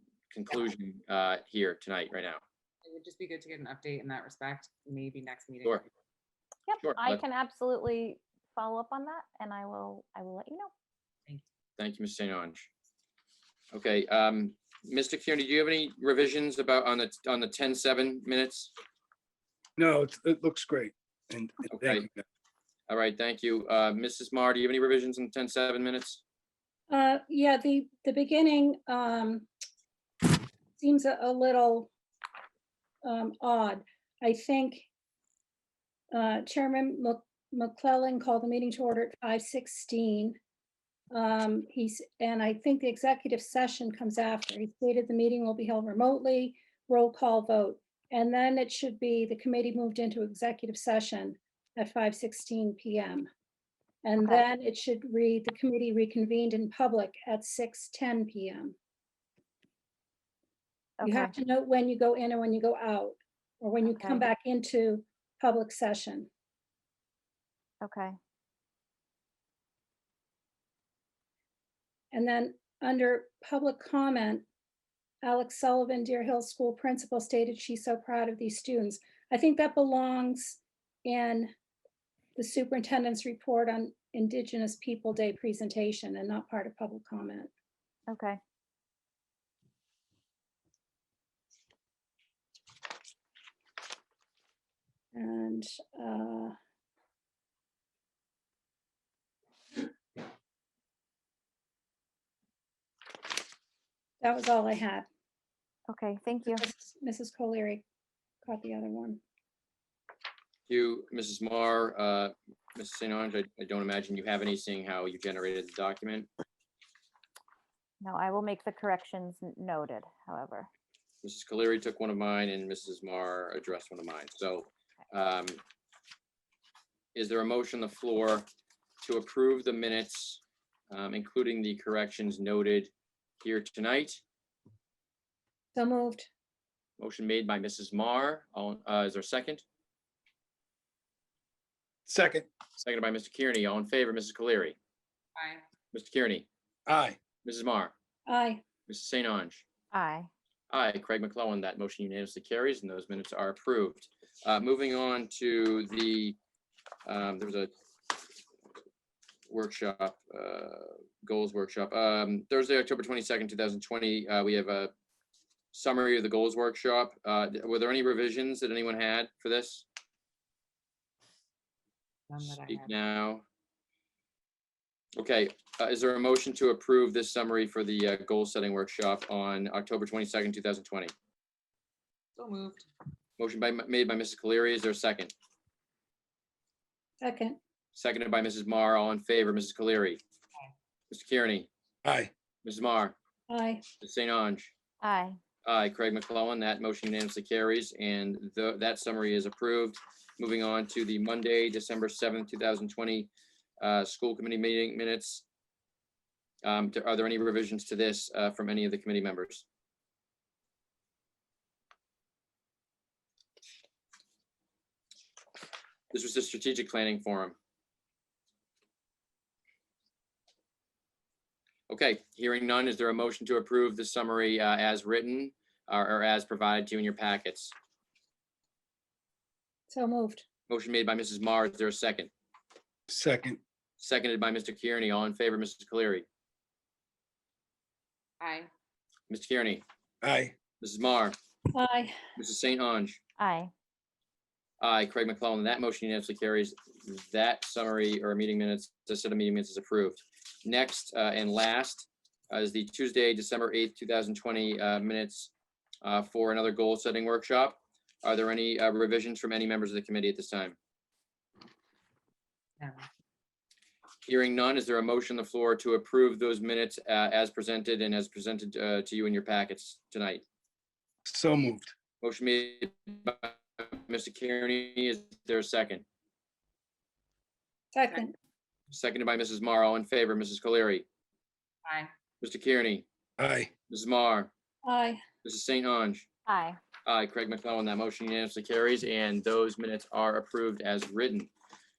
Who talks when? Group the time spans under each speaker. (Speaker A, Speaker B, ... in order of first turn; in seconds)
Speaker A: 0.3-2.4, 6.8-7.2, 11.8-12.7, 13.7-18.7, 21.7-22.1, 22.9-26.2, 110.7-116.3, 121.2-125.6, 127.1-128.5, 129.0-132.9, 133.4-134.2, 137.0-139.6, 142.8-144.8, 145.9-146.5, 147.4-147.9, 148.9-149.6, 150.7-156.4, 157.1-157.7, 159.5-164.9, 165.7-169.8, 172.6-173.4, 175.2-181.1, 183.4-185.3, 187.9-190.2, 191.1-191.7, 192.6-193.2, 194.0-194.7, 195.7-205.4, 206.6-209.7, 216.1-217.6, 221.9-227.7, 230.7-232.3, 234.0-236.2, 239.3-239.8, 240.8-241.4, 242.4-243.2, 244.8-255.5, 256.0-260.8, 264.2-270.4, 272.2-276.0, 278.9-281.0, 282.4-283.0, 283.9-284.5, 285.4-286.3, 287.1-291.5
Speaker B: 2.9-5.9, 145.4-145.6, 172.3-172.9, 182.4-182.9, 238.4-238.7, 281.9-282.1
Speaker C: 6.7-10.7, 61.0-61.3, 63.9-64.3, 67.8-68.2, 88.1-88.4, 105.9-106.7, 118.0-120.7, 149.9-150.3, 195.0-195.4, 243.4-243.7, 286.5-286.8
Speaker D: 19.8-22.2, 142.1-142.5, 146.9-147.2, 192.0-192.3, 233.1-233.6, 240.2-240.6, 271.3-271.9, 283.4-283.7
Speaker E: 26.9-29.4, 30.8-31.9, 33.0-34.9, 36.1-40.4, 41.1-53.3, 54.0-58.7, 61.0-66.3, 72.1-74.5, 75.2-81.5, 82.4-87.5, 95.1-96.5, 104.2-105.1, 106.5-107.8, 108.5-109.2, 135.8-136.3, 148.3-148.6, 187.2-187.6, 193.5-193.8, 229.9-230.4, 241.7-242.2, 277.9-278.3, 284.8-285.2